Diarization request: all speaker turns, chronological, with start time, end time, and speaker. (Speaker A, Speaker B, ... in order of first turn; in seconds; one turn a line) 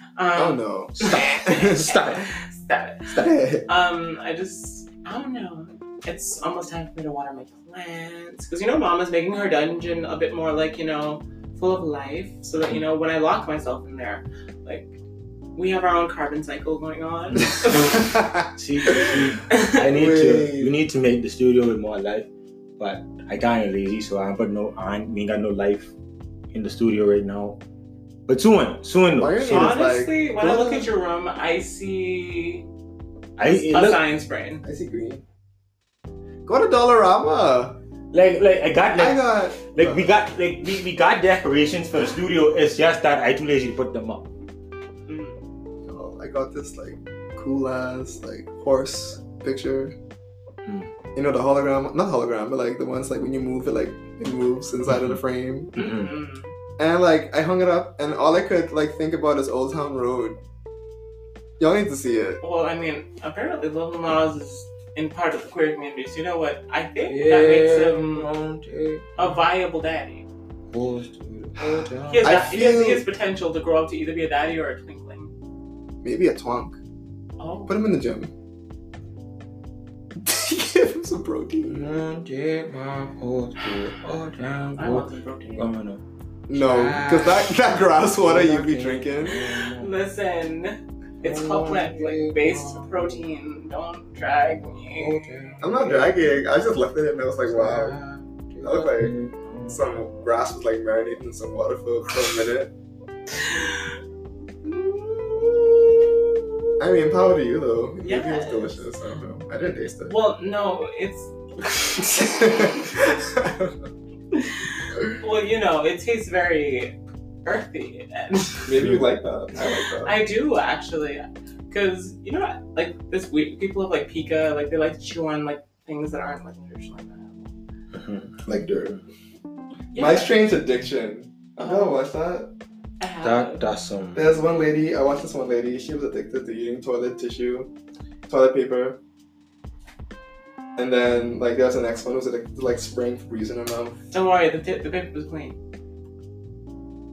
Speaker A: 0.1-14.9
Speaker B: 0.3-1.8
Speaker C: 1.0-2.3
Speaker B: 3.1-3.7
Speaker A: 15.6-18.0
Speaker B: 17.9-19.1
Speaker C: 18.5-22.3
Speaker A: 19.5-19.8
Speaker B: 19.8-20.8
Speaker C: 22.8-25.9
Speaker C: 26.5-27.6
Speaker C: 28.3-29.8
Speaker B: 29.2-30.2
Speaker A: 29.4-32.6
Speaker C: 30.4-30.9
Speaker C: 33.4-34.0
Speaker A: 33.4-34.6
Speaker B: 34.6-35.2
Speaker B: 36.4-37.8
Speaker C: 38.1-44.3
Speaker B: 38.9-40.1
Speaker A: 45.1-45.4
Speaker B: 45.9-49.9
Speaker C: 50.6-50.9
Speaker B: 51.1-55.7
Speaker C: 54.9-55.2
Speaker C: 55.7-56.1
Speaker A: 55.8-56.5
Speaker B: 56.8-60.4
Speaker B: 61.6-62.4
Speaker A: 62.4-68.3
Speaker C: 67.1-69.4
Speaker A: 69.2-70.2
Speaker C: 70.7-72.4
Speaker B: 71.7-73.0
Speaker A: 72.1-75.3
Speaker B: 76.0-76.8
Speaker A: 77.4-77.7
Speaker B: 77.7-78.3
Speaker B: 80.2-81.8
Speaker C: 81.6-86.0
Speaker A: 84.8-85.7
Speaker B: 86.5-89.4
Speaker C: 86.5-87.6
Speaker C: 88.1-90.0
Speaker A: 89.2-95.2
Speaker C: 91.2-93.2
Speaker C: 94.9-96.4
Speaker B: 95.6-98.0
Speaker C: 97.5-100.1
Speaker B: 98.6-99.1
Speaker B: 99.7-102.7
Speaker A: 103.4-103.9
Speaker A: 104.7-106.0
Speaker B: 106.8-110.1
Speaker A: 108.0-108.8
Speaker A: 109.8-111.3
Speaker B: 112.0-113.7
Speaker A: 112.0-112.7
Speaker A: 114.3-116.9
Speaker A: 117.4-118.7
Speaker B: 118.7-120.2
Speaker C: 118.8-119.0
Speaker A: 120.0-127.5
Speaker C: 127.9-128.4
Speaker B: 128.4-129.0
Speaker A: 129.9-130.4
Speaker B: 129.9-132.5
Speaker A: 131.6-132.0
Speaker A: 133.0-133.7
Speaker C: 133.2-134.2
Speaker B: 134.1-137.7
Speaker B: 138.3-139.0
Speaker B: 140.8-144.0
Speaker A: 144.1-145.6